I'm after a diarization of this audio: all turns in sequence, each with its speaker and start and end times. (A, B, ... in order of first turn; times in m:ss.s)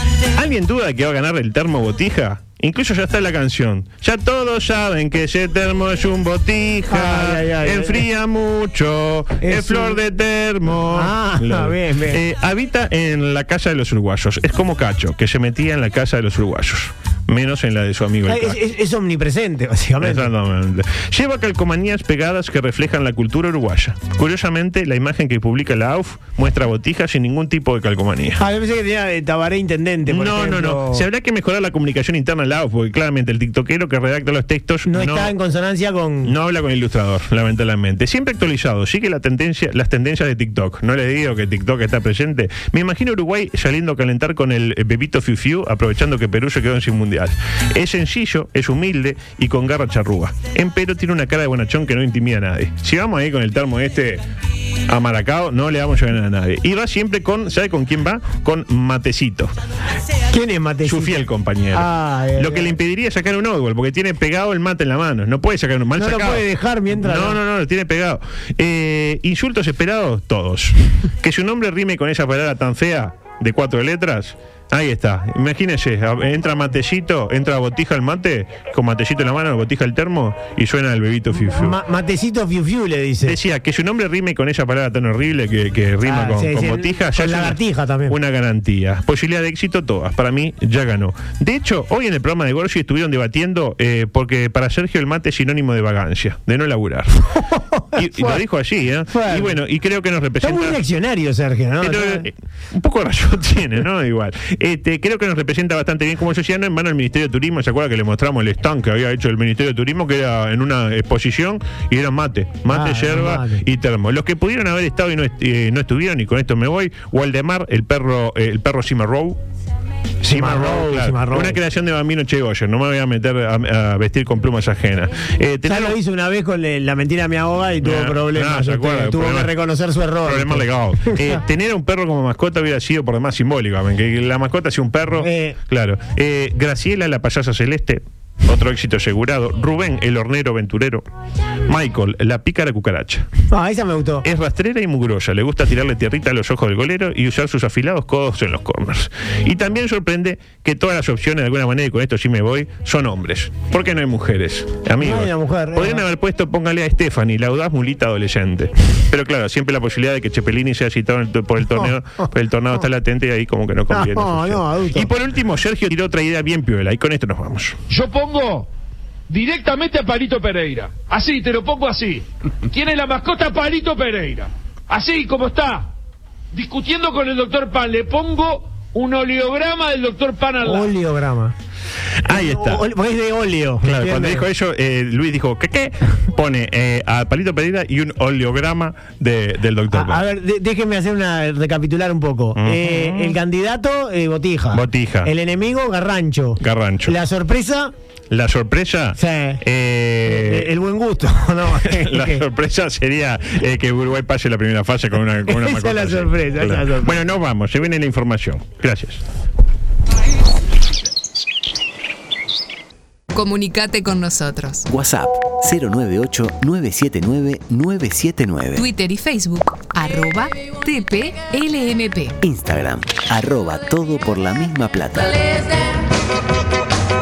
0:00.3-0:18.6 A
0:06.9-0:08.0 B
0:09.4-0:10.0 B
0:10.8-0:12.2 B
0:18.3-0:20.3 B
0:20.0-0:28.4 A
0:28.4-0:31.0 B
0:30.0-0:35.3 A
0:34.9-0:36.3 B
0:36.2-0:54.2 A
0:54.9-0:59.5 A
1:00.3-1:01.2 B
1:00.8-1:21.8 A
1:01.7-1:02.7 B
1:06.0-1:07.4 B
1:21.6-1:23.4 B
1:23.2-1:37.4 A
1:26.0-1:28.2 B
1:37.3-1:38.4 B
1:37.9-1:40.8 A
1:39.1-1:39.6 B
1:40.4-1:42.3 B
1:41.8-1:59.4 A
1:52.7-1:53.6 B
2:00.2-2:06.0 A
2:00.2-2:01.6 B
2:05.7-2:11.4 B
2:07.8-2:09.5 A
2:10.2-2:21.0 A
2:15.2-2:15.6 B
2:21.7-2:23.3 A
2:23.5-2:24.3 B
2:24.2-2:47.8 A
2:35.0-2:36.0 B
2:43.9-2:45.1 B
2:47.9-2:48.7 C
2:49.3-2:55.9 C
2:56.5-3:00.9 C
3:00.6-3:01.5 B
3:02.2-3:02.9 A
3:02.3-3:04.5 B
3:03.8-3:10.2 A
3:09.9-3:17.9 B
3:12.6-3:13.4 A
3:14.7-3:15.3 A
3:16.6-3:17.2 A
3:18.3-3:20.7 A
3:19.2-3:19.6 B
3:20.3-3:22.4 B
3:21.7-3:29.2 A
3:25.5-3:27.2 B
3:33.3-3:34.8 D
3:34.9-3:38.9 E
3:38.8-3:42.4 D
3:42.4-3:45.6 E